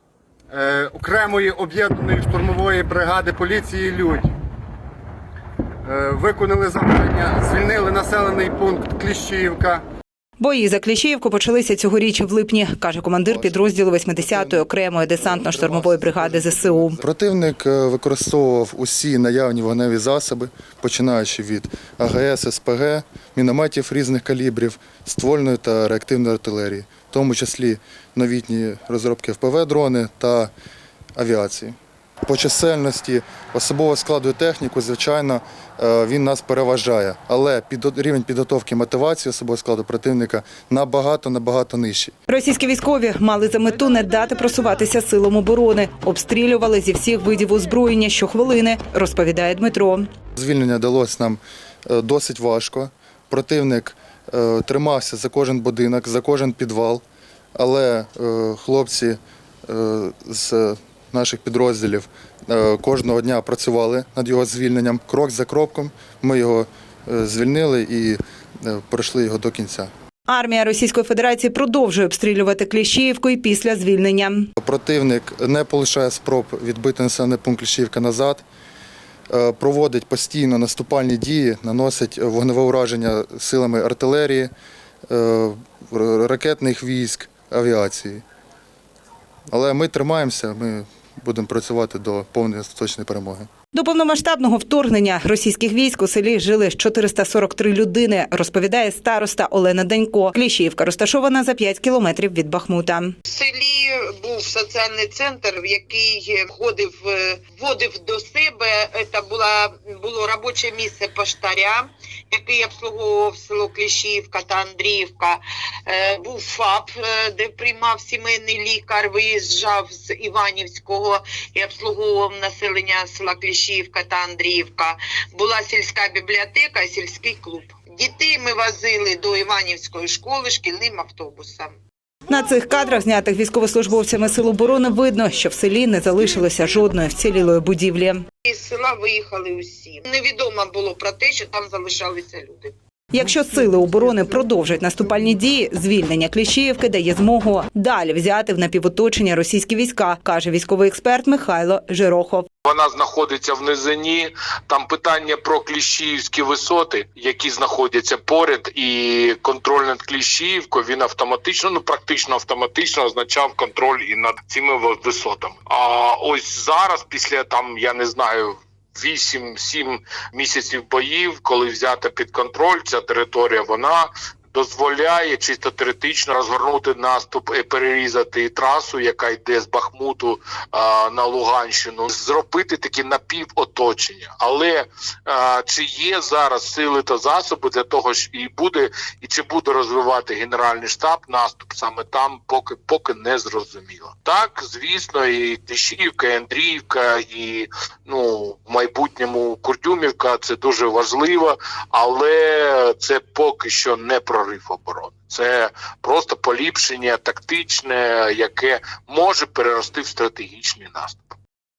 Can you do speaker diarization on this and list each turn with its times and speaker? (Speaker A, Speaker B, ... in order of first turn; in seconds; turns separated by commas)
Speaker A: 0.5-4.3, Speaker A: 5.8-9.8, Speaker B: 10.4-17.0, Speaker C: 13.3-30.5, Speaker C: 31.2-42.2, Speaker B: 42.3-50.1, Speaker C: 50.4-57.0, Speaker C: 57.6-69.9, Speaker B: 70.3-74.5, Speaker C: 74.6-78.4, Speaker C: 79.3-84.5, Speaker C: 85.1-88.2, Speaker C: 89.5-93.5, Speaker B: 93.7-103.1, Speaker D: 103.3-131.7, Speaker B: 132.3-138.2, Speaker D: 138.5-142.7, Speaker B: 143.1-152.5, Speaker E: 152.7-211.4